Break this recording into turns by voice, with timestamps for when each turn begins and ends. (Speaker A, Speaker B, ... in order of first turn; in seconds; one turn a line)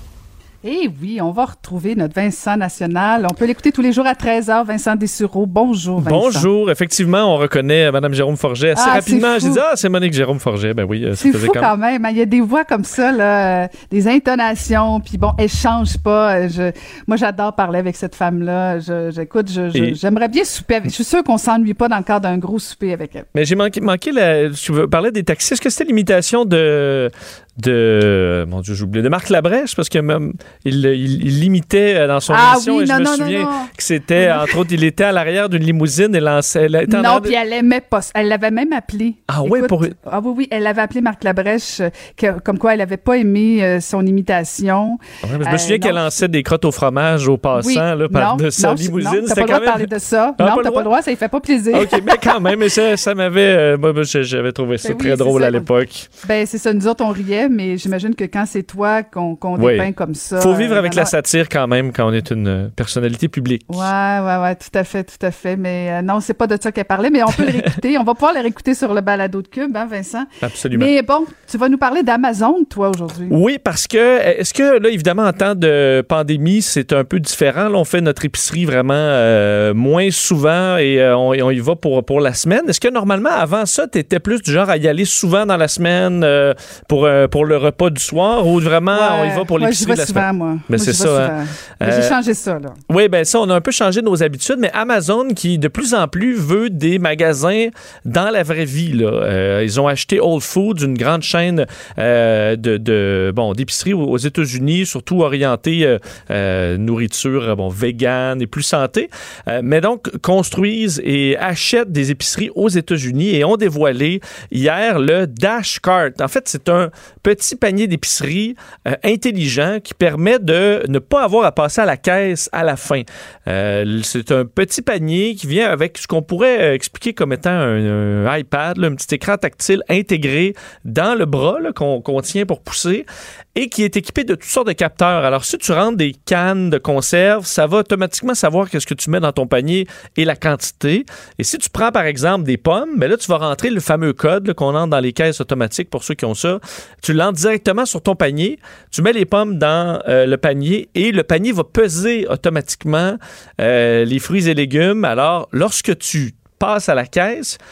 Speaker A: 0.6-6.5
Speaker B: 6.0-11.7
Speaker A: 8.7-9.6
Speaker A: 11.1-23.3
Speaker B: 23.3-37.3
Speaker A: 32.3-34.6
Speaker A: 36.9-46.1
Speaker B: 39.3-39.9
Speaker B: 45.2-50.9
Speaker A: 47.5-52.5
Speaker B: 51.7-56.1
Speaker A: 54.8-55.7
Speaker A: 56.2-61.1
Speaker B: 59.5-63.9
Speaker A: 63.7-73.4
Speaker B: 70.4-70.9
Speaker B: 73.3-92.1
Speaker A: 88.9-92.8
Speaker B: 92.9-157.6